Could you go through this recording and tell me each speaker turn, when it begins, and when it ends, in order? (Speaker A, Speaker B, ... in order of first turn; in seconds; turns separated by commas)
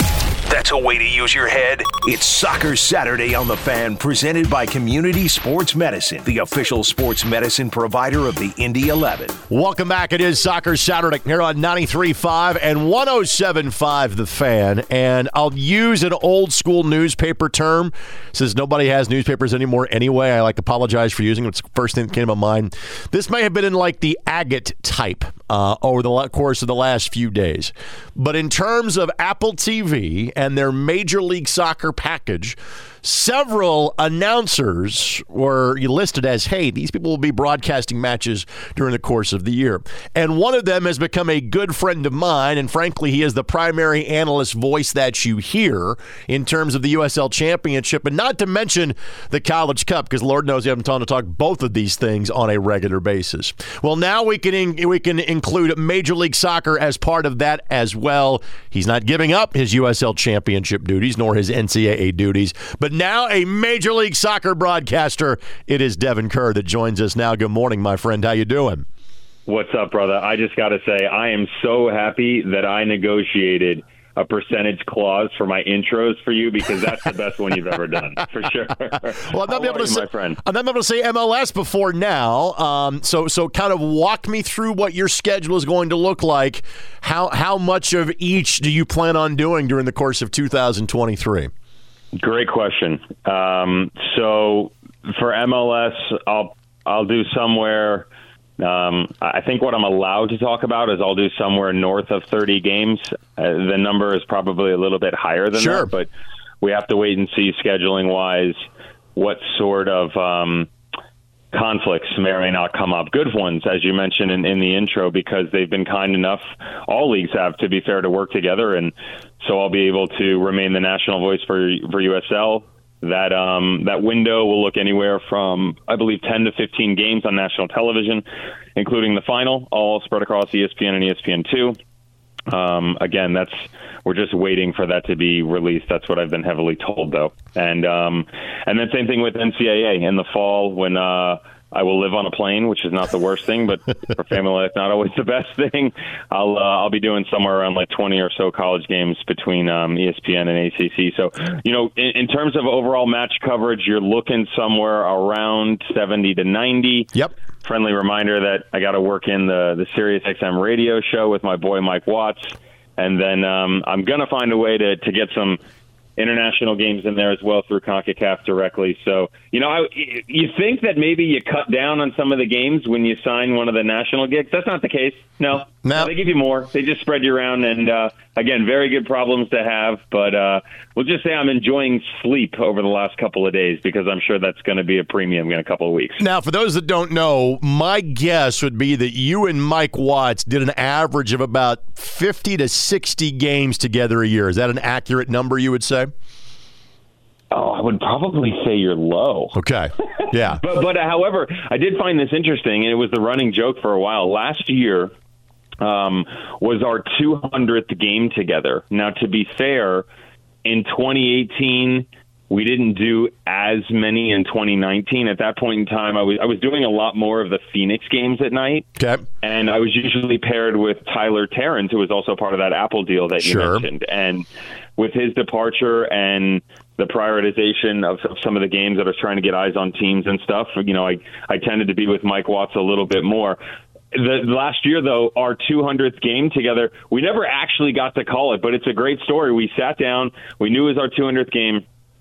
Speaker A: 0.5-9.4, Speaker B: 9.5-68.8, Speaker C: 69.5-80.4, Speaker B: 79.2-91.5, Speaker C: 92.2-98.1, Speaker C: 98.6-106.1, Speaker B: 105.5-105.9, Speaker C: 106.6-108.6, Speaker C: 109.2-110.7, Speaker C: 111.5-128.2, Speaker C: 128.8-131.8, Speaker C: 132.5-157.1, Speaker C: 157.7-165.6, Speaker C: 166.2-186.2, Speaker B: 175.8-176.1, Speaker B: 186.2-196.1, Speaker C: 197.5-199.5, Speaker B: 199.5-200.6, Speaker C: 200.6-205.1, Speaker C: 205.8-210.1, Speaker C: 210.7-218.9, Speaker B: 219.0-219.2, Speaker C: 219.4-224.5, Speaker B: 223.4-223.9, Speaker C: 225.0-233.6, Speaker C: 234.1-241.8